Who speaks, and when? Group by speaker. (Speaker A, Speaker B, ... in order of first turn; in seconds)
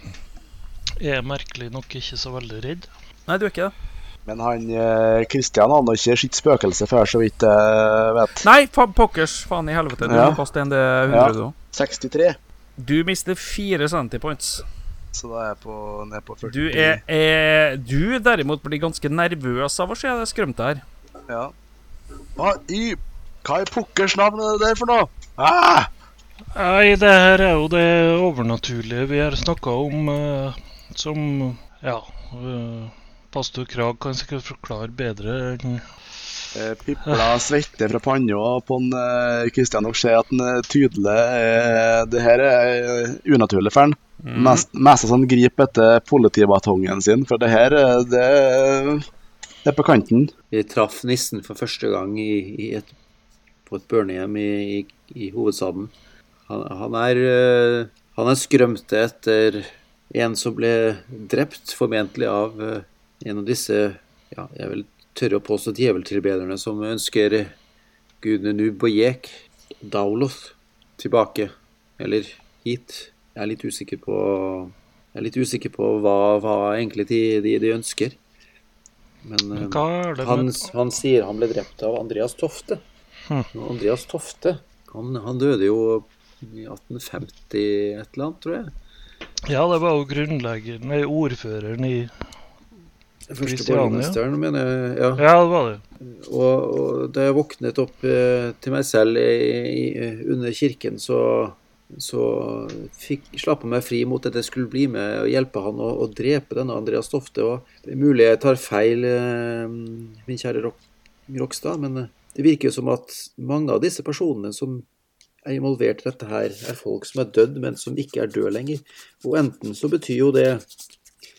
Speaker A: 1.0-2.9, 26.5-35.9, 37.0-37.3, 79.5-80.7, 89.5-92.1, 93.4-94.2, 95.2-95.8
Speaker B: 3.3-3.7, 8.4-11.5, 12.8-14.6, 16.4-20.8, 44.2-44.6
Speaker C: 4.2-8.4, 10.0-10.4, 11.1-12.4, 15.1-17.0, 22.4-25.9, 36.5-49.0, 49.6-50.3
Speaker D: 50.5-52.9, 53.7-55.9, 56.5-67.5, 68.2-78.2, 79.2-82.8, 83.5-88.7, 93.3-95.2, 96.0-114.8, 115.4-120.6